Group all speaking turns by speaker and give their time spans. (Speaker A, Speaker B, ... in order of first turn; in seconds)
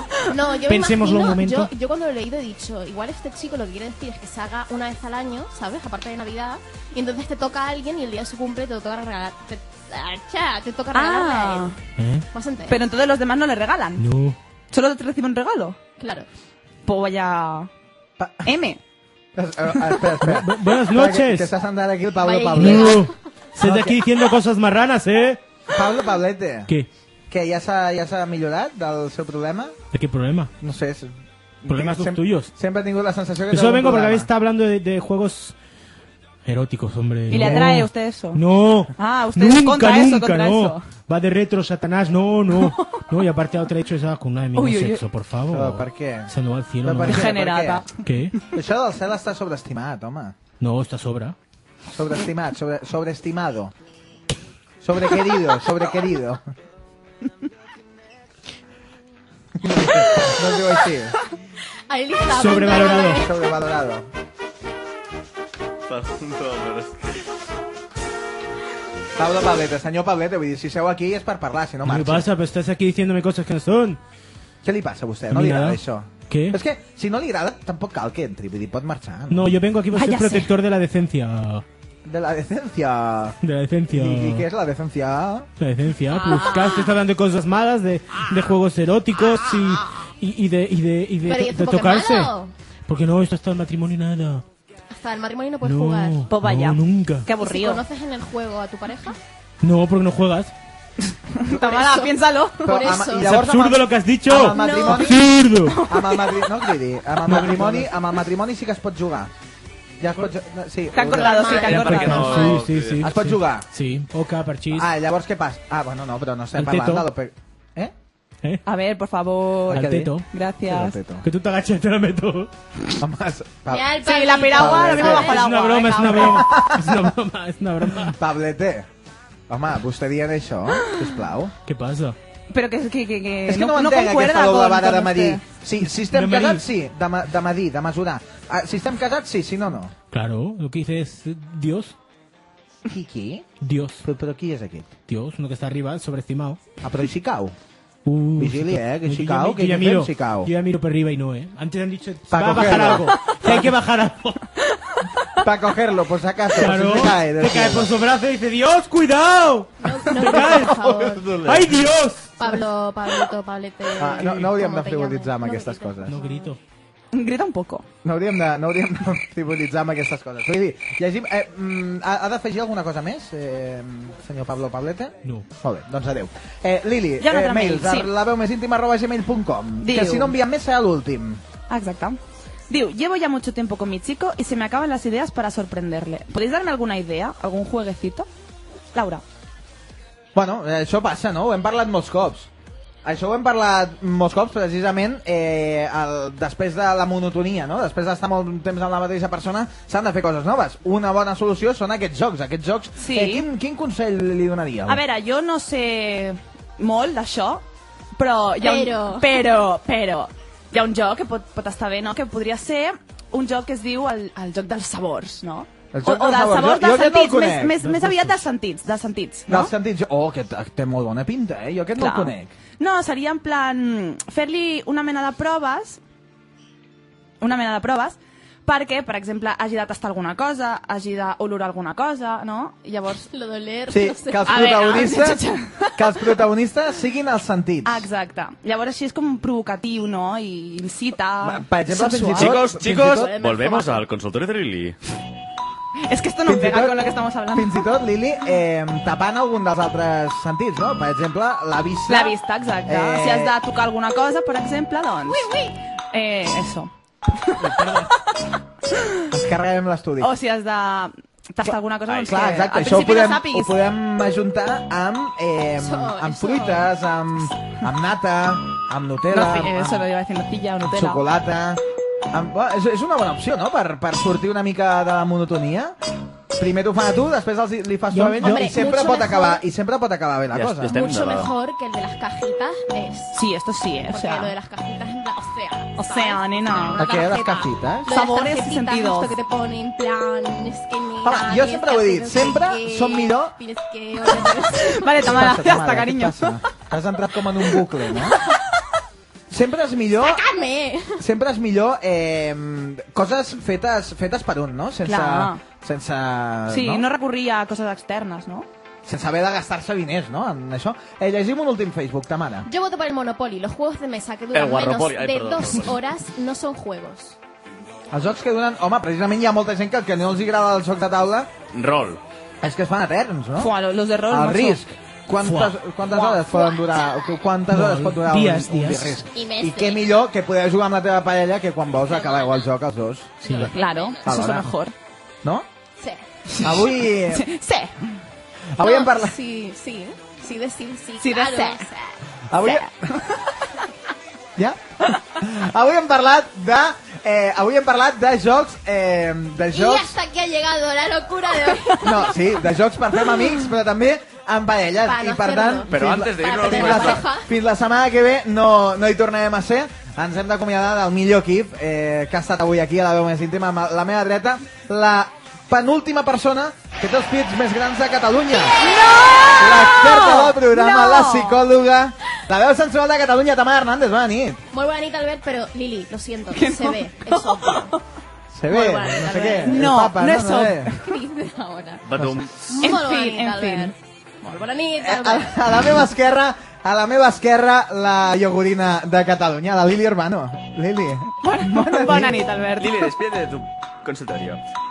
Speaker A: 0.3-11.8, 12.3-12.8, 16.0-16.3, 22.2-23.1, 61.9-63.4, 86.2-87.0, 91.2-92.5, 94.9-96.3, 97.4-99.2, 101.5-103.3, 104.5-105.1, 111.0-112.3, 123.7-125.4, 159.8-161.3, 162.4-166.4, 208.6-209.4, 233.3-235.3, 242.0-244.0, 265.8-266.9, 278.4-279.6, 280.9-283.4, 284.1-295.3, 300.2-301.2, 312.7-317.4, 326.1-327.2, 329.3-330.0, 333.5-334.2, 338.8-342.2, 349.7-352.5, 355.0-357.5, 374.7-377.9, 378.7-379.9, 381.0-385.7
Speaker B: 0.7-1.7, 12.0-12.3, 14.0-14.4, 20.2-21.5, 22.6-25.4, 29.9-30.5, 31.7-32.5, 33.5-35.6, 36.5-47.3, 48.0-48.4, 50.6-51.4, 62.3-63.2, 71.8-74.0, 75.3-76.6, 79.3-81.6, 83.4-84.5, 85.6-92.3, 92.9-94.5, 95.6-97.3, 99.6-100.5, 103.1-105.8, 107.2-107.9, 111.7-114.9, 116.6-117.0, 119.7-120.3, 121.2-122.5, 125.2-128.2, 131.7-132.2, 136.1-136.7, 140.1-141.9, 143.6-144.0, 145.1-146.6, 148.1-154.4, 156.6-160.7, 161.4-162.4, 166.1-166.6, 217.8-218.4, 257.6-258.1, 278.1-278.8, 325.4-325.8, 327.7-329.2, 333.4-333.7
Speaker C: 10.9-11.8, 12.7-14.0, 14.7-15.8, 16.9-17.7, 18.4-18.8, 37.3-38.4, 39.0-40.8, 42.5-43.0, 44.5-45.0, 47.1-47.9, 79.9-80.5, 96.3-97.8, 101.4-103.0, 105.7-106.4, 110.9-112.5, 118.7-121.0, 124.0-126.5, 132.5-135.4, 167.1-167.8, 177.2-178.1, 179.8-180.3, 181.7-188.3, 188.9-189.2, 203.0-203.5, 204.9-207.6, 208.2-219.7, 222.0-226.0, 227.4-233.3, 234.4-235.9, 237.8-242.5, 246.1-247.8, 252.1-257.5, 258.9-259.3, 260.2-263.7, 269.3-271.2, 283.3-284.5, 286.0-287.0, 288.1-289.4, 294.8-296.6, 305.1-305.6, 306.7-308.7, 323.6-324.8, 333.7-334.9, 336.5-337.9, 341.2-341.9, 342.6-342.9, 368.8-371.6, 376.5-378.0, 379.6-381.0, 382.8-383.9, 391.4-393.1
Speaker D: 18.2-18.5, 19.4-23.0, 23.6-24.0, 25.7-26.7, 27.3-29.8, 30.6-34.3, 37.4-37.6, 45.5-47.8, 48.4-50.4, 51.9-53.7, 54.8-56.5, 59.6-61.2, 63.1-64.1, 69.2-72.3, 74.6-79.5, 82.0-83.4, 83.9-85.5, 102.7-105.2, 105.9-109.3, 110.0-112.1, 113.0-113.7, 114.7-117.9, 119.7-120.1, 120.7-121.2, 123.0-123.9, 124.5-125.3, 126.2-127.1, 128.0-128.9, 129.5-131.5, 133.5-139.9, 142.9-143.5, 144.0-144.9, 146.8-147.6, 148.4-150.5, 152.3-153.7, 155.4-157.9, 160.2-161.7, 164.0-166.1, 168.0-181.4, 190.3-192.5, 193.1-205.0, 215.9-217.8, 219.5-222.5, 233.9-235.4, 236.0-238.1, 241.4-243.3, 246.5-253.6, 259.3-260.3, 262.2-270.1, 270.9-276.0, 276.6-281.0, 286.9-288.1, 291.2-293.6, 295.2-298.4, 299.5-300.4, 301.2-307.1, 309.1-312.7, 318.1-321.5, 322.6-323.7, 324.3-334.7, 336.6-337.5, 338.8-339.4, 342.5-342.9, 344.6-350.1, 352.0-368.9, 369.6-374.6, 378.5-380.9, 382.2-382.4, 385.0-392.5
Speaker E: 65.9-67.0, 111.6-113.1, 242.4-244.9, 262.1-262.4, 280.5-281.5, 314.5-316.0, 321.7-322.2, 355.9-357.3, 382.1-382.6, 392.8-394.6